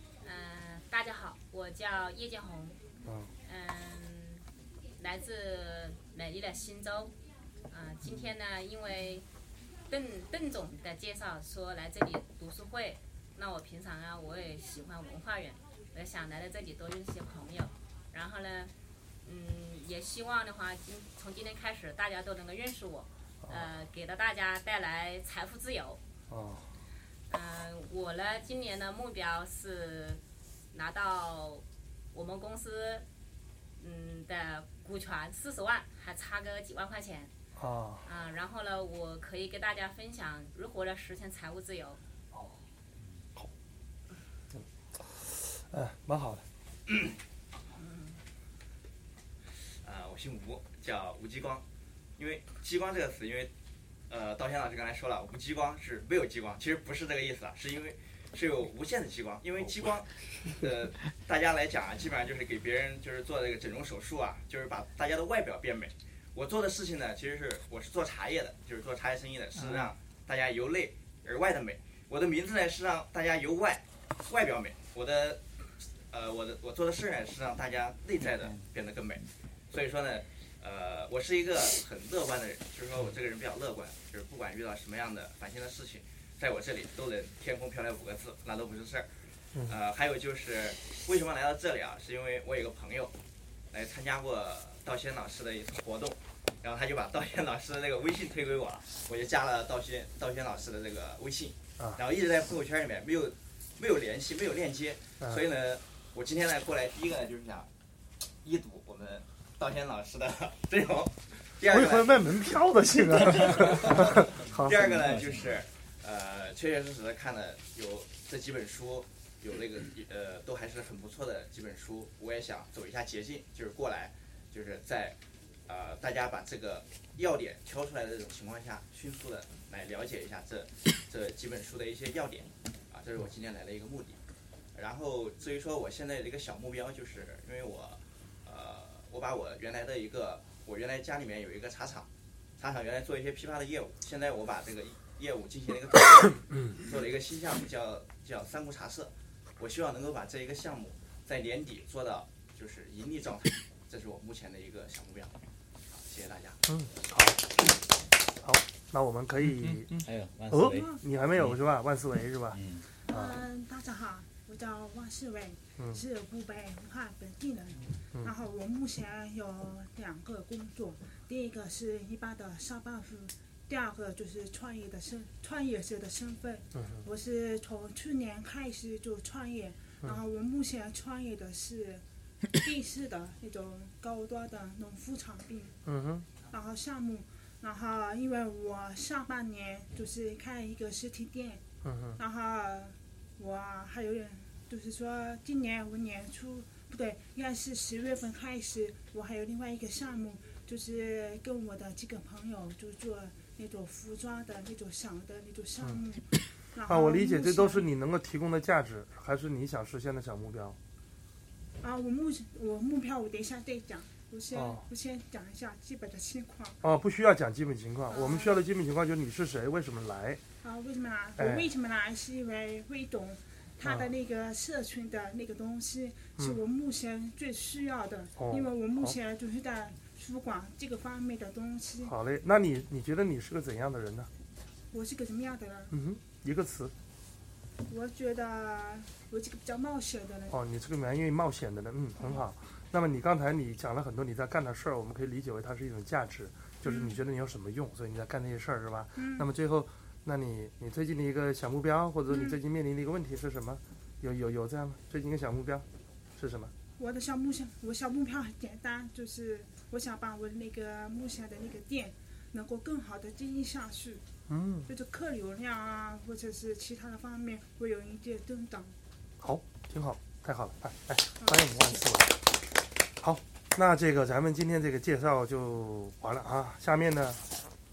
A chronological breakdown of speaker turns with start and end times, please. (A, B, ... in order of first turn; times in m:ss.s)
0:00.2-0:02.8 A
0:03.0-0:03.3 B
0:03.4-0:04.4 A
0:05.0-0:07.1 A
0:07.7-0:09.2 A
0:09.9-0:18.7 A
0:19.2-0:26.0 A
0:23.4-0:23.7 B
0:26.3-0:26.6 B
0:27.3-0:30.2 A
0:30.7-0:33.0 A
0:33.8-0:37.3 A
0:37.6-0:38.0 B
0:38.0-0:42.0 A
0:44.5-0:46.4 B
0:46.9-0:47.1 C
0:47.8-0:48.2 A
0:49.8-0:51.6 C
0:52.2-0:53.5 C
0:54.1-1:15.4 C
1:16.1-1:29.1 C
1:29.6-1:33.1 C
1:33.7-1:47.7 C
1:48.4-1:52.5 C
1:51.7-1:54.8 B
1:53.1-2:14.2 C
1:54.6-1:55.6 D
2:14.7-2:35.4 C
2:35.9-2:36.6 C
2:36.7-2:37.5 B
2:38.4-2:39.9 B
2:39.6-2:40.8 D
2:40.5-2:43.4 B
2:40.6-2:41.0 E
2:42.5-2:42.8 D
2:43.0-3:02.0 E
2:56.8-2:57.0 B
3:02.5-3:05.8 E
3:05.8-3:06.2 B
3:06.5-3:11.6 E
3:11.8-3:12.2 B
3:12.2-3:27.9 E
3:26.9-3:30.8 B
3:31.8-3:36.8 E
3:34.5-3:34.8 B
3:36.8-3:40.4 B
3:38.1-3:38.6 E
3:40.6-3:52.1 E
3:41.4-3:41.7 B
3:43.8-3:44.1 B
3:48.4-3:49.2 B
3:52.0-3:54.3 B
3:54.9-3:55.9 E
3:55.9-3:56.9 B
3:57.9-4:00.6 E
4:00.5-4:15.8 B
4:02.2-4:02.4 E
4:06.8-4:07.2 E
4:09.2-4:09.5 E
4:12.3-4:12.6 E
4:16.4-4:16.7 B
4:17.0-4:24.2 E
4:24.5-4:24.9 B
4:24.8-4:28.9 E
4:29.4-4:32.3 B
4:31.4-4:32.1 E
4:33.2-4:37.4 B